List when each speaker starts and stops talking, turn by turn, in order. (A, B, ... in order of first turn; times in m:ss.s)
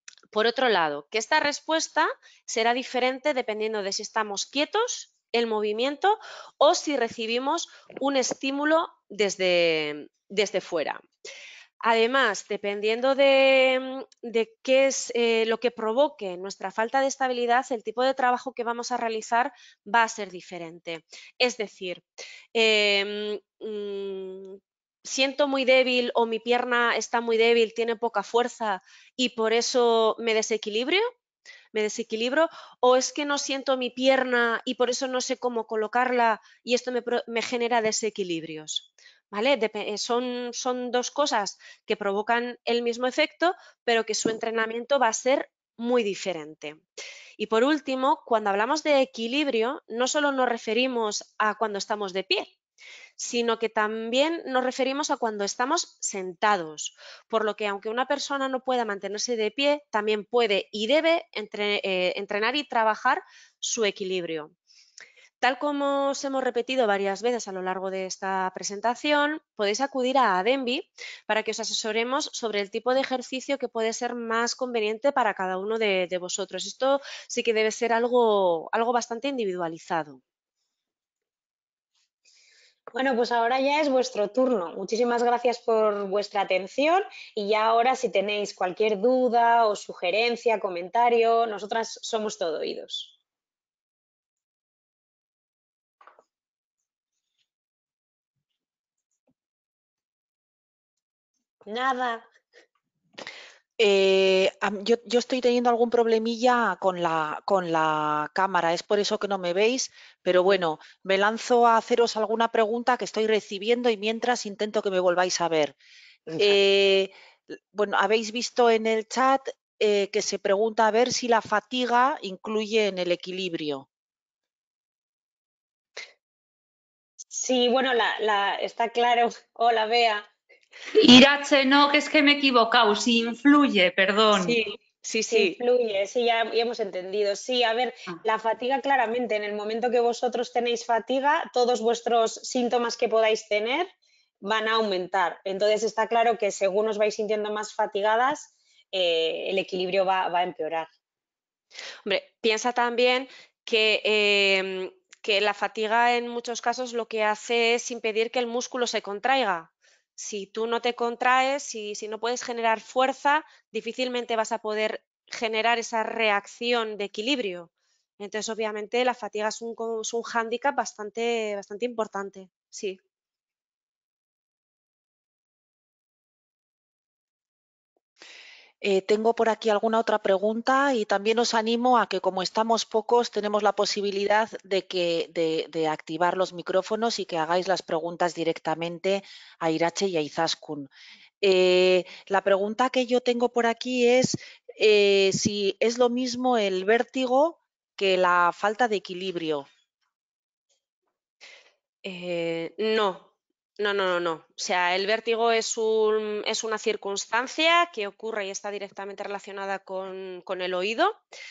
0:00.3-0:11.0 A
0:11.8-0:31.1 A
0:31.7-0:46.8 A
0:47.4-0:52.5 A
0:53.2-1:04.5 A
1:05.4-1:20.2 A
1:22.9-1:33.2 B
1:41.6-1:42.3 B
1:43.8-1:55.8 C
1:56.3-1:56.6 B
1:56.4-2:03.9 C
2:07.3-2:10.2 B
2:10.9-2:14.6 D
2:14.3-2:15.6 A
2:15.3-2:23.9 B
2:24.4-2:30.9 B
2:32.1-2:53.0 A
2:58.8-3:10.9 C
3:11.4-3:19.7 C
3:22.0-3:31.2 A